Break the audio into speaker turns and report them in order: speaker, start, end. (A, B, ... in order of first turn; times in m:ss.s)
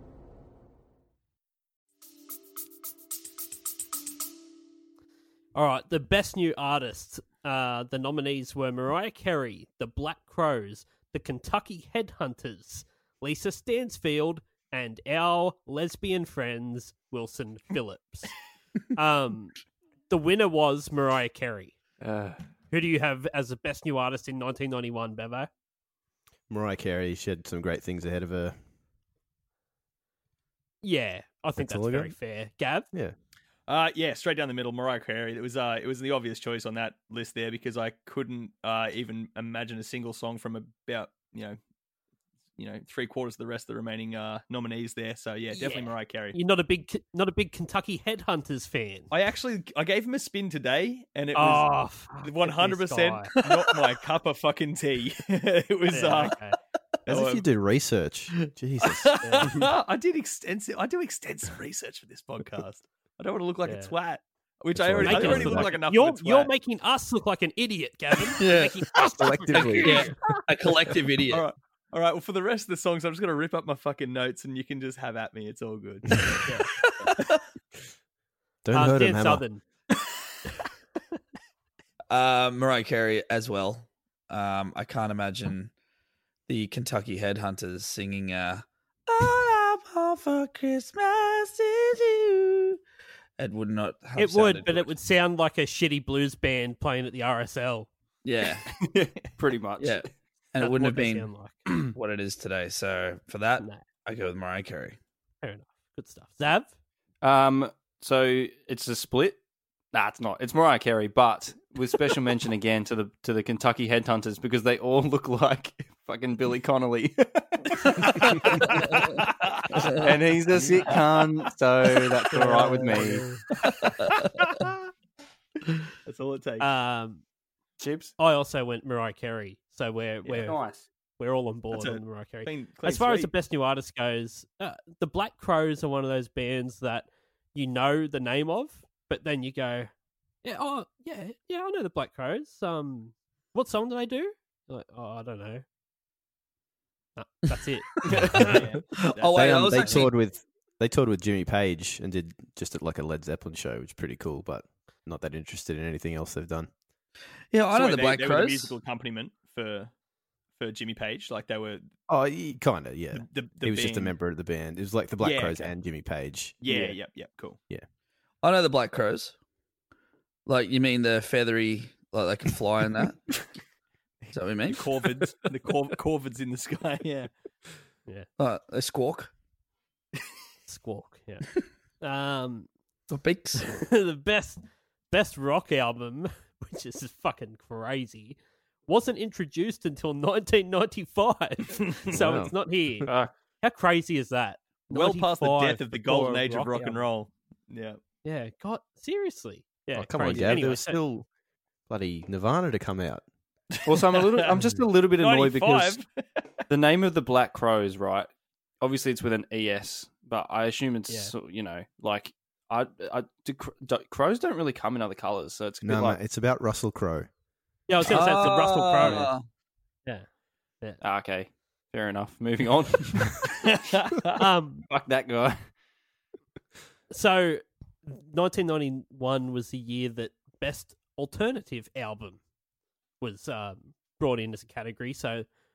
0:05.5-0:18.3 A
0:18.9-0:19.6 A
0:20.1-0:21.8 A
0:22.0-0:22.4 B
0:22.7-0:25.5 A
0:26.5-0:28.6 C
0:30.8-0:32.9 A
0:31.6-0:32.2 C
0:33.7-0:41.6 D
0:42.6-0:46.4 D
0:45.5-0:49.1 A
0:49.1-0:56.4 D
0:51.3-0:53.3 A
0:55.9-0:56.6 A
0:57.1-0:59.2 C
0:57.1-0:57.4 D
0:58.8-1:06.5 D
0:59.2-0:59.6 A
1:03.6-1:03.9 A
1:04.7-1:05.7 C
1:05.0-1:10.1 A
1:08.4-1:08.8 E
1:08.9-1:10.1 C
1:09.5-1:11.4 E
1:11.3-1:16.5 D
1:16.4-1:16.7 A
1:18.6-1:19.4 C
1:18.7-1:19.6 A
1:22.1-1:25.7 E
1:26.5-1:32.8 E
1:33.4-1:34.9 E
1:34.2-1:37.9 A
1:38.2-1:38.7 E
1:39.0-1:40.1 B
1:39.8-1:45.0 E
1:40.6-1:41.7 A
1:45.4-1:46.7 A
1:47.2-1:49.4 B
1:49.9-1:58.8 B
1:57.8-1:58.8 D
1:59.8-2:03.2 B
2:02.3-2:03.4 A
2:03.8-2:04.2 D
2:06.0-2:06.7 D
2:06.6-2:07.2 A
2:07.8-2:08.1 B
2:08.2-2:10.6 A
2:10.2-2:10.8 B
2:11.2-2:19.9 A
2:11.7-2:13.3 D
2:20.4-2:25.6 A
2:27.2-2:28.7 A
2:28.0-2:30.1 E
2:28.3-2:30.1 D
2:29.3-2:36.7 C
2:37.5-2:38.8 E
2:37.7-2:39.9 D
2:40.6-2:41.9 D
2:42.1-2:46.6 C
2:43.1-2:44.1 D
2:45.2-2:45.7 D
2:46.6-2:47.6 D
2:48.4-2:49.3 E
2:50.4-2:53.3 E
2:54.3-2:54.9 E
2:54.7-2:57.3 D
2:58.4-2:59.3 E
3:00.6-3:01.5 A
3:02.0-3:02.7 A
3:03.1-3:03.8 E
3:03.7-3:17.0 A
3:12.1-3:13.1 C
3:13.0-3:13.3 B
3:14.9-3:18.0 D
3:18.2-3:21.0 A
3:19.9-3:21.3 C
3:21.9-3:23.2 C
3:23.8-3:26.0 B
3:23.9-3:24.5 D
3:25.2-3:26.2 D
3:26.7-3:28.3 B
3:28.8-3:36.2 B
3:35.8-3:37.3 C
3:37.9-3:39.3 A
3:38.0-3:39.4 E
3:38.1-3:38.4 C
3:39.0-3:39.3 C
3:41.0-3:44.3 B
3:44.4-3:44.8 A
3:44.9-3:45.7 B
3:47.1-3:52.4 A
3:53.2-3:55.5 A